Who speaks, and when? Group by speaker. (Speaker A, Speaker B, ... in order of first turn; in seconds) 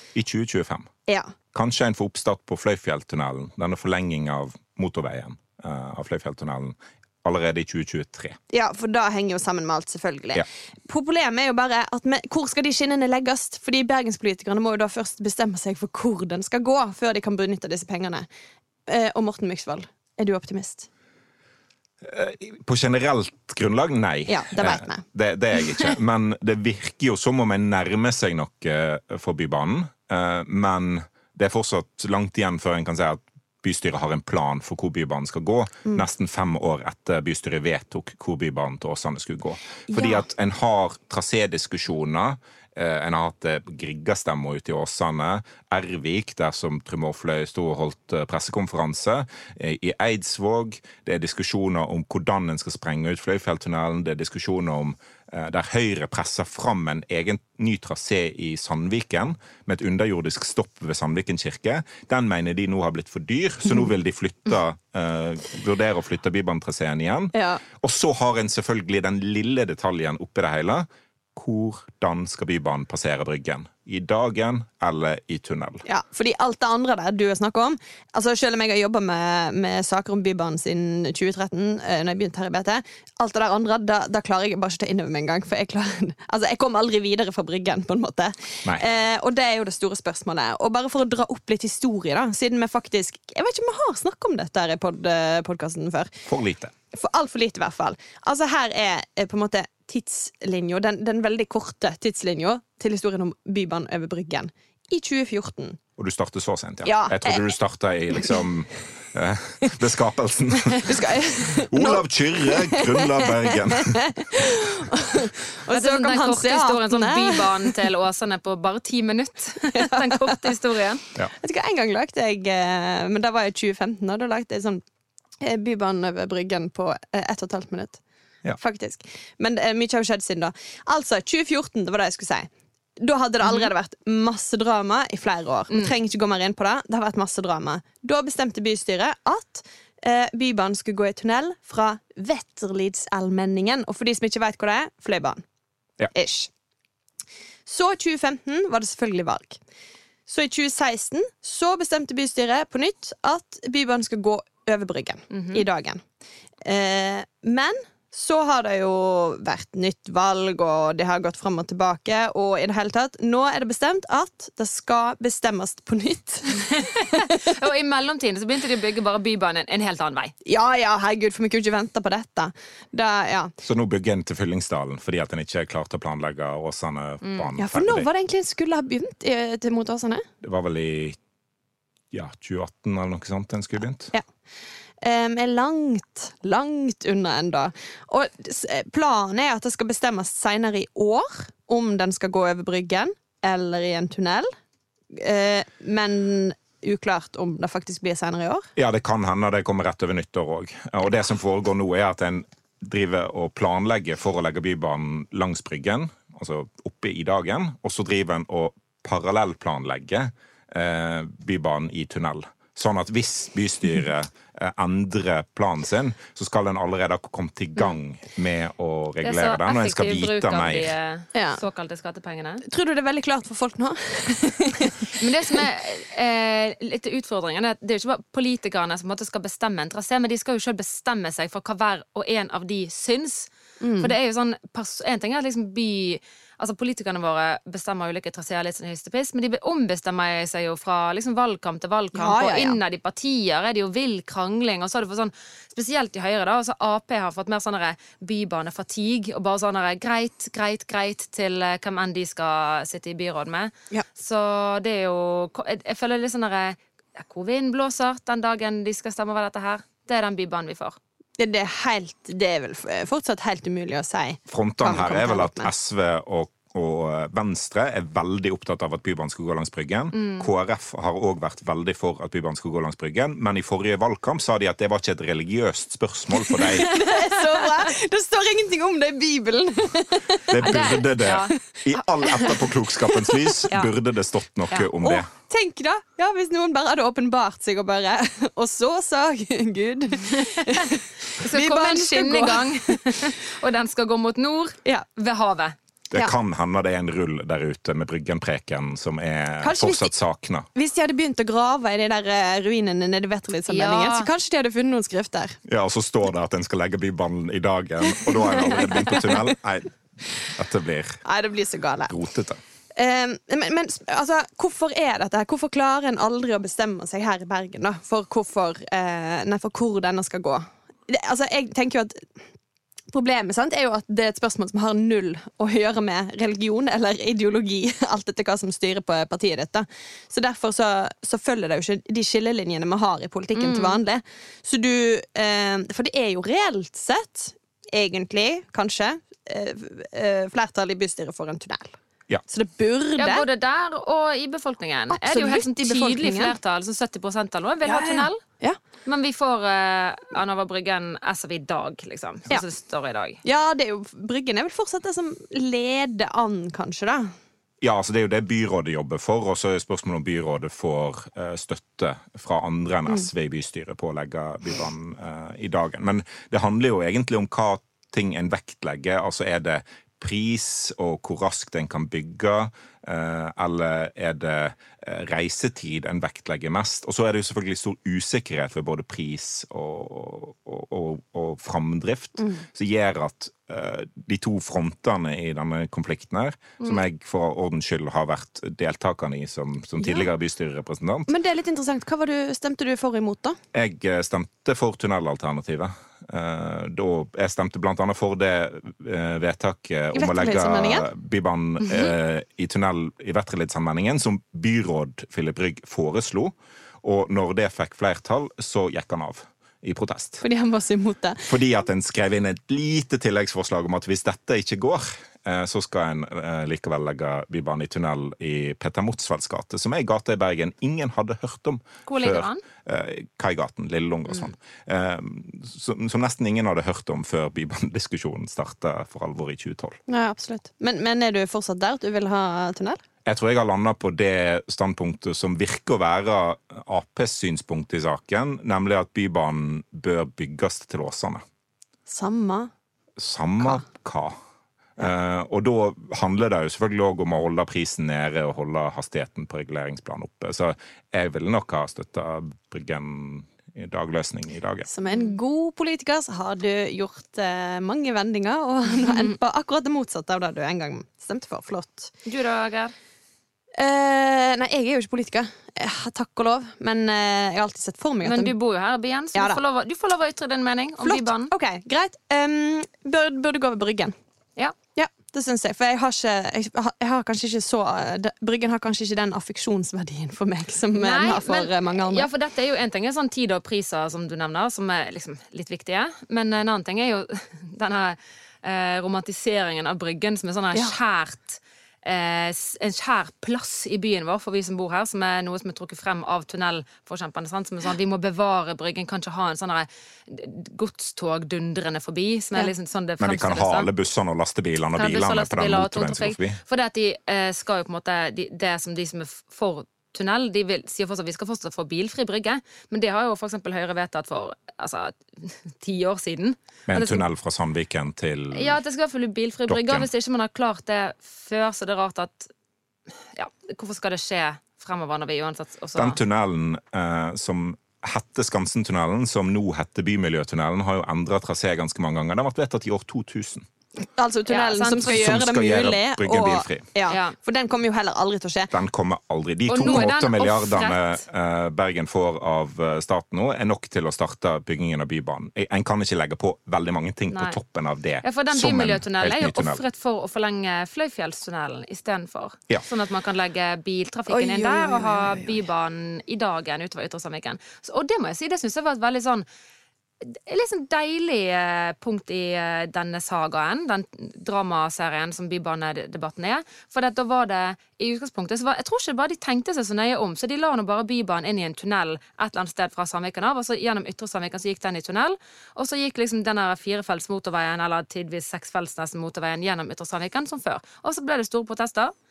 Speaker A: 0.1-0.9, 1.5-8.4, 22.0-75.8, 96.2-96.7, 106.0-114.0, 173.6-178.1, 180.4-181.2, 182.1-184.1, 198.8-220.9, 264.5-276.9, 280.5-285.3, 296.1-300.7, 305.7-311.2, 312.1-312.6, 357.8-391.3, 393.7-410.4, 411.5-430.0, 433.2-441.4, 443.2-444.4, 445.0-454.9, 503.2-506.6, 516.9-518.8, 519.7-520.1, 525.9-533.7, 535.0-536.9, 538.7-549.8
Speaker B: 1.1-1.3, 8.5-18.3, 18.9-20.9, 24.3-25.0, 39.9-40.2, 67.3-67.6, 75.8-96.2, 96.9-105.8, 106.8-107.4, 110.7-117.7, 119.7-120.5, 121.4-124.8, 125.4-128.0, 128.6-145.4, 146.1-146.5, 147.7-149.6, 150.3-156.0, 156.6-166.9, 170.4-173.5, 177.6-180.2, 185.0-194.5, 195.1-198.7, 221.3-221.6, 222.7-225.2, 233.8-234.1, 242.1-242.8, 261.4-265.7, 276.7-280.9, 285.0-293.2, 299.6-300.1, 300.7-305.6, 308.3-309.3, 311.2-312.1, 312.9-322.3, 323.1-341.9, 342.5-343.4, 345.1-346.5, 347.8-348.8, 353.4-357.3, 382.4-382.6, 390.0-390.3, 391.3-393.6, 400.1-401.1, 410.4-411.5, 430.1-433.0, 442.1-442.7, 454.9-462.1, 463.8-468.5, 469.3-469.6, 471.0-474.1, 474.9-482.3, 534.2-538.7, 554.3-555.5
Speaker C: 115.7-121.0, 133.4-133.7, 155.3-155.6, 166.7-170.3, 219.2-222.6, 225.2-261.0, 270.1-270.5, 276.8-277.1, 280.6-281.5, 290.6-295.7, 303.7-304.3, 333.5-334.0, 343.2-348.4, 349.0-353.4, 422.1-422.6, 455.1-455.3, 458.9-459.4, 462.2-462.9, 468.2-471.5, 480.9-503.9, 504.9-517.2, 518.5-522.5, 523.3-526.2, 534.5-535.1, 537.1-537.3, 539.7-541.1, 547.3-547.6, 548.2-559.4, 560.2-582.1